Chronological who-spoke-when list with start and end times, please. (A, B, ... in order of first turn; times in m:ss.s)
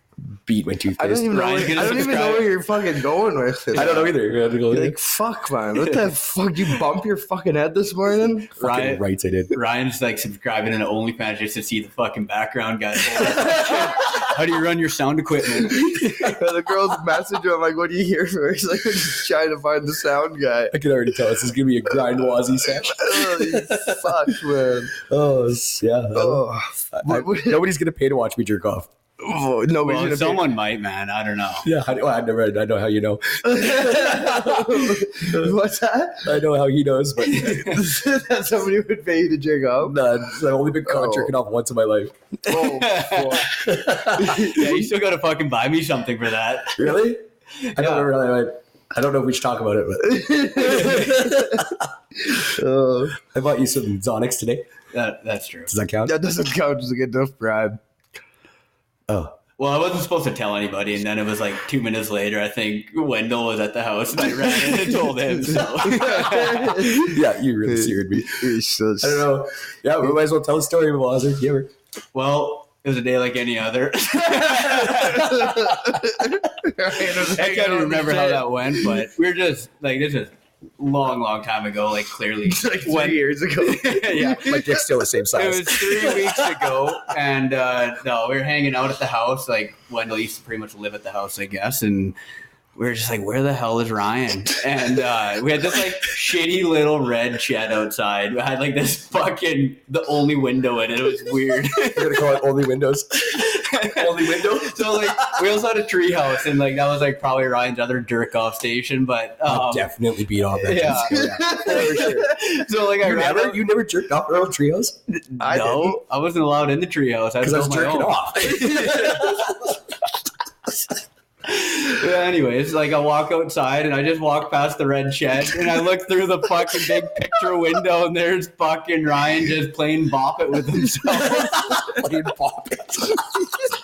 0:00.5-0:01.3 A
0:01.0-0:04.1 B
0:01.3-0:02.6 C
0:03.7-0:05.0 A
0:03.8-0:04.0 C
0:04.7-0:08.6 B
0:08.6-0:09.5 A
0:08.6-0:16.4 C
0:16.2-0:20.8 B
0:20.7-0:24.4 A
0:22.7-0:25.0 B
0:24.9-0:28.9 A
0:26.1-0:27.6 B
0:29.2-0:30.4 B
0:29.8-0:31.7 C
0:31.6-0:35.6 A
0:33.4-0:36.4 B
0:36.2-0:37.8 A
0:37.2-0:37.8 C
0:37.6-0:40.0 B
0:39.8-0:42.2 A
0:40.8-0:41.3 B
0:42.5-0:44.8 B
0:42.5-0:43.5 C
0:43.4-0:44.5 A
0:44.2-0:46.9 C
0:46.8-0:47.2 A
0:47.6-0:48.1 C
0:47.8-0:51.8 A
0:50.0-0:51.7 B
0:52.3-0:53.2 B
0:53.2-0:54.7 A
0:54.9-0:55.7 C
0:55.7-0:56.1 A
0:56.1-0:57.8 B
0:59.1-0:59.4 A
0:59.6-1:07.0 C
1:05.5-1:09.3 B
1:06.9-1:11.7 A
1:12.1-1:16.0 C
1:14.9-1:19.0 B
1:16.9-1:24.6 C
1:22.5-1:25.0 B
1:24.4-1:26.3 A
1:25.4-1:32.2 C
1:32.8-1:42.4 C
1:41.9-1:45.4 A
1:43.4-1:49.9 C
1:49.5-1:52.4 A
1:50.5-1:53.6 C
1:51.1-1:52.3 B
1:53.0-1:55.0 A
1:55.3-1:59.5 C
1:55.4-1:56.0 B
1:57.4-1:59.5 A
2:01.4-2:12.1 C
2:11.8-2:13.4 A